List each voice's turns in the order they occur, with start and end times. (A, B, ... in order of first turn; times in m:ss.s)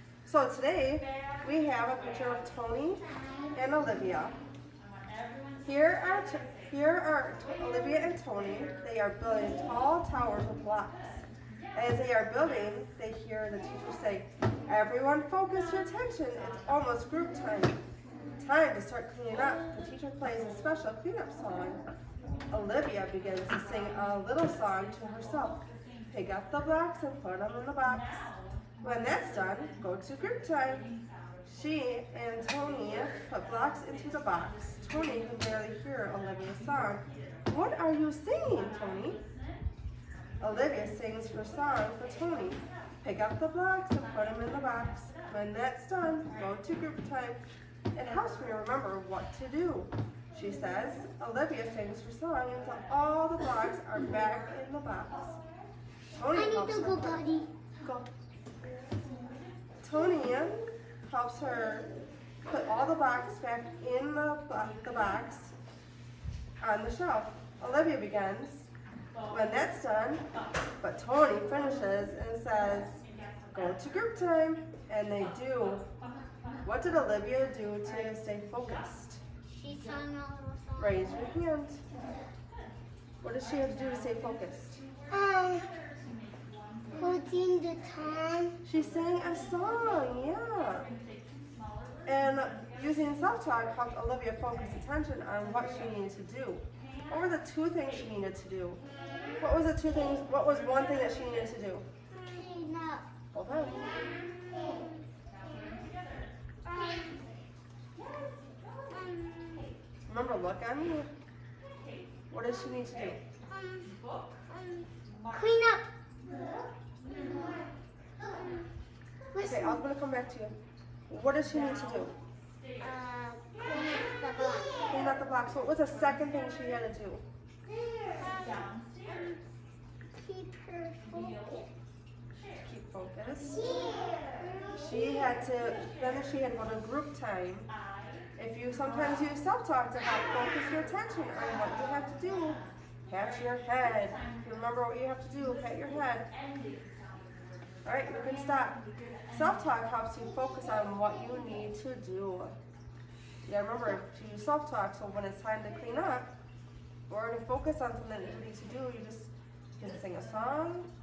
0:00.2-0:04.4 A
0:05.6-0:17.8 A
0:18.4-0:21.8 A
0:22.5-0:28.3 A
0:28.8-0:30.9 A
0:31.4-0:39.2 A
0:40.4-0:47.4 A
0:47.9-0:55.4 A
0:56.2-0:57.2 A
0:56.3-0:57.5 B
0:59.8-1:01.9 A
1:02.4-1:05.5 A
1:06.6-1:08.7 A
1:09.3-1:10.2 A
1:10.8-1:15.9 A
1:16.6-1:19.2 A
1:19.5-1:21.3 B
1:20.8-1:21.8 A
1:23.2-1:24.8 A
1:25.1-1:25.7 B
1:26.9-1:28.6 B
1:28.6-1:30.9 A
1:32.0-1:38.8 A
1:39.4-1:41.8 A
1:42.1-1:43.1 B
1:43.3-1:44.0 A
1:43.9-1:45.8 B
1:46.6-1:47.3 B
1:48.9-1:49.7 B
1:50.1-1:51.1 A
1:52.3-1:53.2 A
1:53.5-1:54.0 B
1:54.5-1:55.9 B
1:57.0-1:57.7 B
1:58.2-1:58.7 B
1:59.3-1:59.8 B
1:59.4-2:00.5 A
2:01.1-2:02.1 A
2:02.8-2:05.1 B
2:04.9-2:07.2 A
2:07.7-2:09.4 B
2:10.1-2:11.7 B
2:12.6-2:13.6 A
2:13.4-2:15.4 B
2:14.8-2:17.7 A
2:18.4-2:26.3 A
2:27.8-2:32.5 A
2:33.4-2:36.3 A
2:37.1-2:40.9 A